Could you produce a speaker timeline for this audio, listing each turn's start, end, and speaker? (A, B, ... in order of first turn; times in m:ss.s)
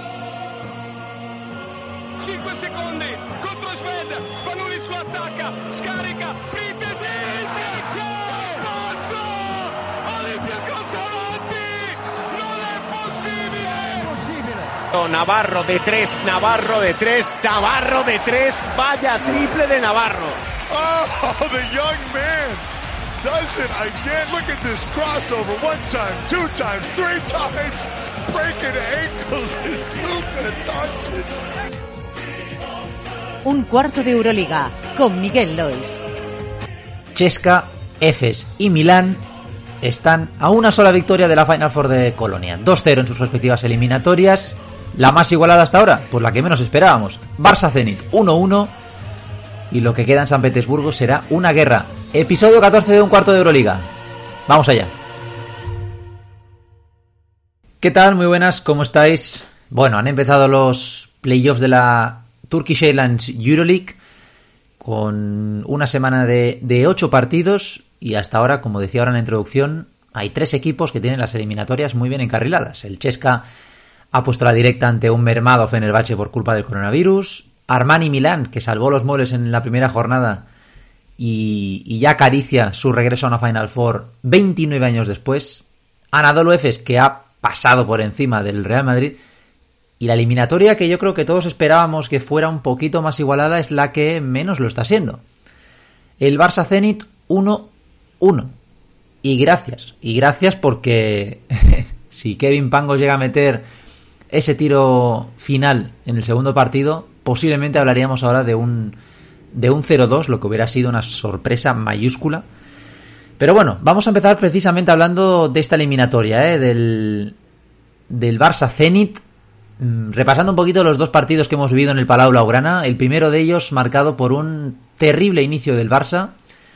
0:02.3-0:07.2 A
0:03.6-0:03.8 B
0:04.5-0:05.0 B
0:06.7-0:07.4 B
0:10.1-0:11.5 A
0:12.3-0:13.5 A
0:14.1-0:14.4 C
0:14.9-0:20.4 C
0:20.7-0:22.6 D
0:23.2-0:31.4 D
0:33.4-0:36.1 B
0:37.1-0:39.2 E
0:39.8-0:48.7 E
0:49.7-0:53.9 E
0:54.5-0:54.9 E
0:57.8-1:04.0 E
1:04.8-1:13.4 E
1:14.1-1:20.4 E
1:21.2-1:29.2 E
1:30.0-1:35.2 E
1:36.2-1:38.6 E
1:39.2-1:43.7 E
1:44.3-1:49.0 E
1:49.5-1:52.5 E
1:53.4-1:57.4 E
1:58.1-1:59.2 E
1:59.8-2:06.3 E